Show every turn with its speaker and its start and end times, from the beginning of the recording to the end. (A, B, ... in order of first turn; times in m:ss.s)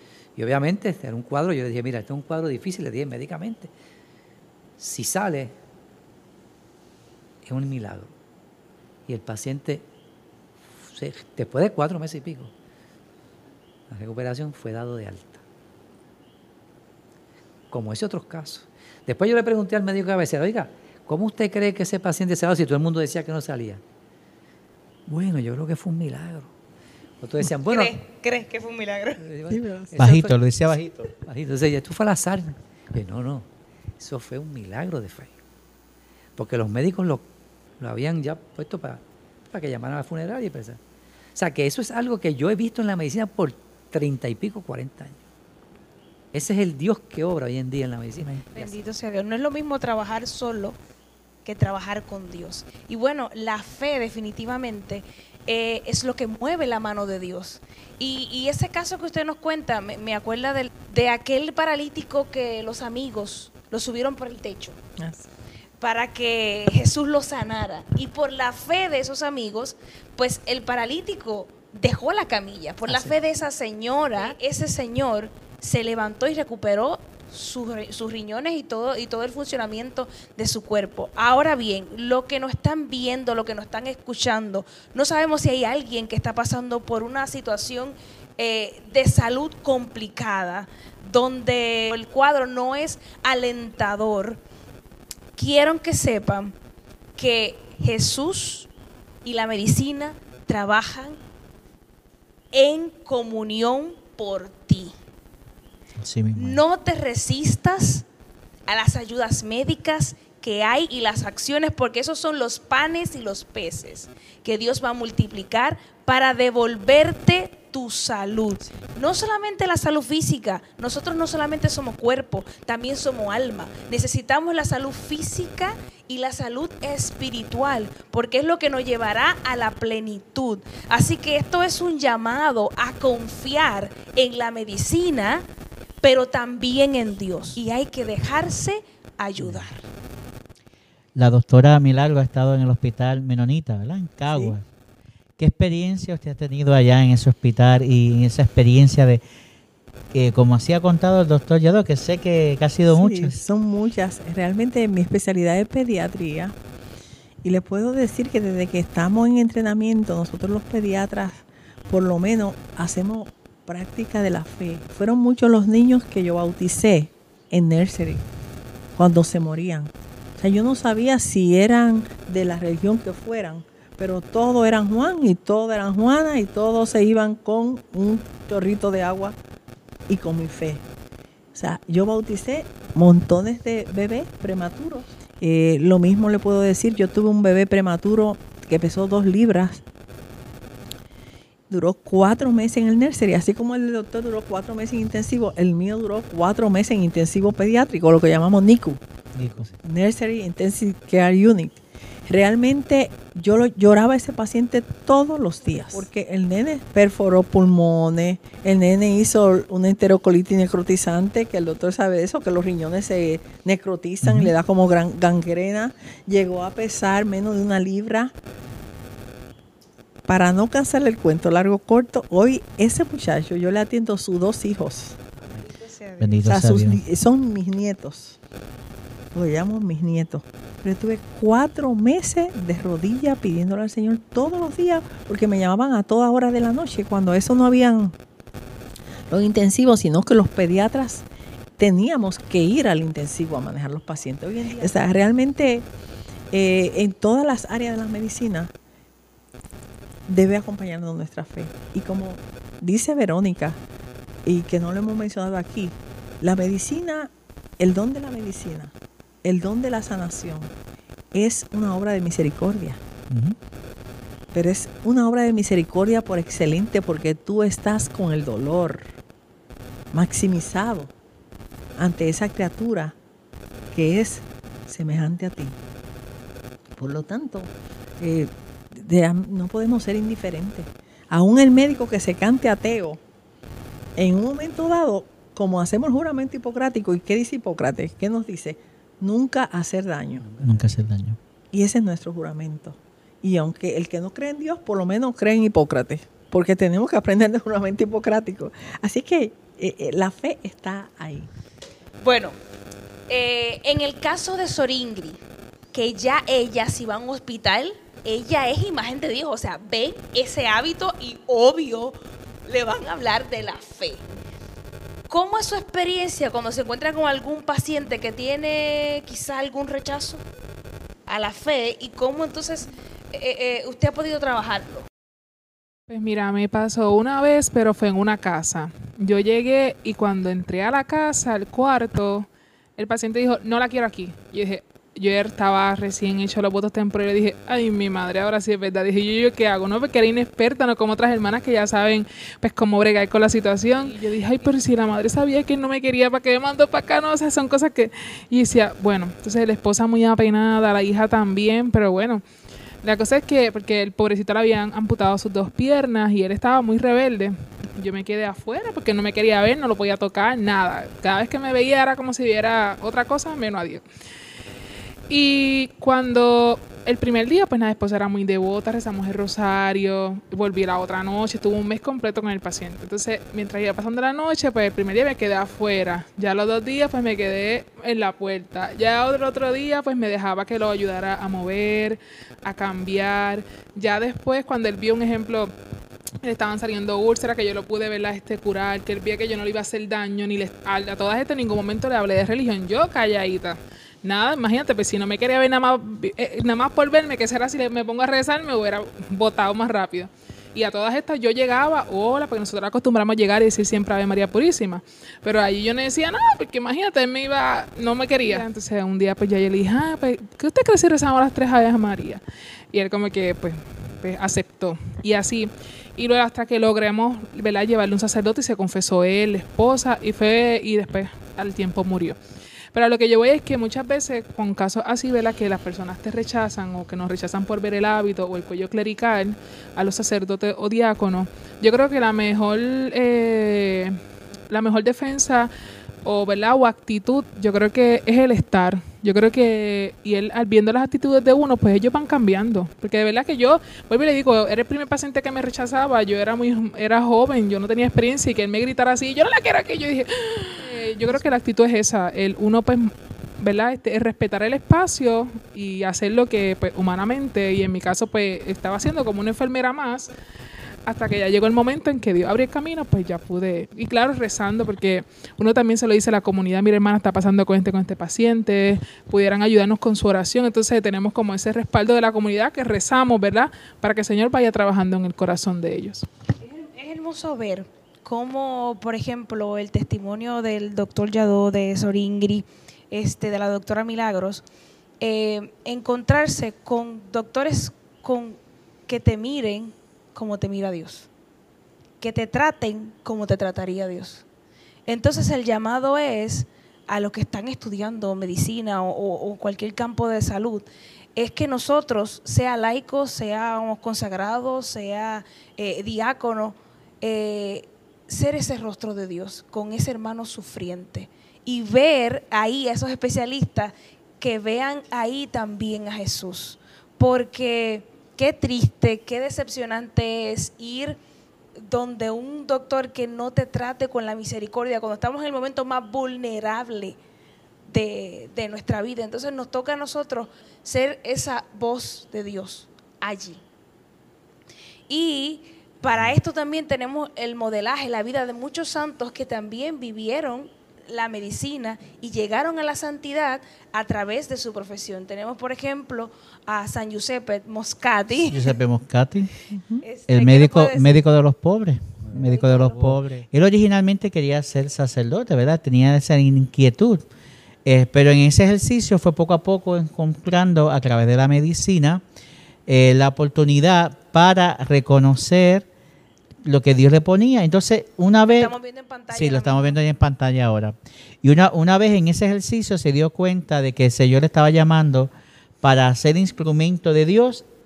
0:00.4-0:03.7 A
0:04.8-0:05.5 A
0:07.4-0:08.1 A
0:09.1-0:09.8 A
0:10.9-0:12.5 A
0:13.9-0:15.4 A
0:17.7-0:23.8 A
0:25.1-0:26.5 A
0:27.2-0:27.9 A
0:27.7-0:29.2 B
0:29.2-0:30.4 A
0:29.5-0:29.9 C
0:30.0-0:31.1 D
0:31.1-0:33.5 A
0:34.0-0:35.3 A
0:36.4-0:37.2 A
0:37.8-0:40.8 A
0:41.4-0:45.2 A
0:46.3-0:48.7 A
0:48.5-0:50.8 B
0:51.4-1:04.8 B
1:05.0-1:05.3 C
1:05.8-1:34.4 B
1:12.9-1:13.1 A
1:35.4-1:36.6 B
1:37.2-1:38.7 B
1:39.2-1:41.2 B
1:42.5-1:44.9 B
1:46.0-1:46.6 D
1:46.4-1:48.1 B
1:48.7-2:15.5 B
2:16.0-2:19.8 B
2:21.2-2:24.6 D
2:24.3-2:24.6 C
2:25.4-2:29.2 D
2:30.1-2:33.4 D
2:32.9-2:36.6 C
2:37.4-2:48.2 C
2:49.0-2:59.4 C
3:00.1-3:00.8 C
3:01.5-3:09.8 C
3:11.7-3:19.0 C
3:19.4-3:19.7 D
3:19.8-3:38.3 C
3:34.2-3:34.5 D
3:40.3-3:45.2 C
3:45.5-3:46.4 B
3:46.2-3:47.0 D
3:46.4-3:48.4 C
3:49.3-3:58.2 C
3:59.3-4:01.3 C
4:01.8-4:05.9 C
4:06.5-4:08.7 C
4:10.3-4:13.8 C
4:14.4-4:20.7 C
4:21.3-4:23.0 C
4:23.3-4:23.6 D
4:24.5-4:29.1 C
4:30.1-4:31.1 C
4:32.0-4:33.2 C
4:33.9-4:35.8 C
4:37.0-4:43.2 C
4:44.2-4:50.5 C
4:50.4-4:50.9 A
4:50.6-4:51.4 D
4:51.7-5:01.5 C
5:02.2-5:02.6 B
5:03.3-5:05.4 B
5:05.9-5:14.2 B
5:15.3-5:20.4 B
5:21.3-5:25.1 B
5:26.1-5:52.4 E
5:53.0-6:04.0 E
6:05.3-6:25.7 E
6:26.4-7:02.4 E
7:02.9-7:14.2 E
7:14.7-7:15.7 E
7:16.2-7:40.3 E
7:41.1-7:56.3 E
7:56.6-8:04.6 B
8:05.2-8:11.3 B
8:12.2-8:14.4 B
8:15.1-8:41.2 B
8:41.8-8:47.2 B
8:47.9-8:53.6 B
8:55.1-9:08.7 B
9:08.5-9:09.5 D
9:09.7-9:10.0 C
9:10.0-9:11.2 B
9:10.3-9:17.2 D
9:12.2-9:13.2 A
9:12.4-9:13.0 B
9:17.8-9:22.2 D
9:22.9-9:25.9 D
9:26.6-9:28.7 D
9:28.5-9:29.9 B
9:29.3-9:35.3 D
9:35.8-9:37.6 D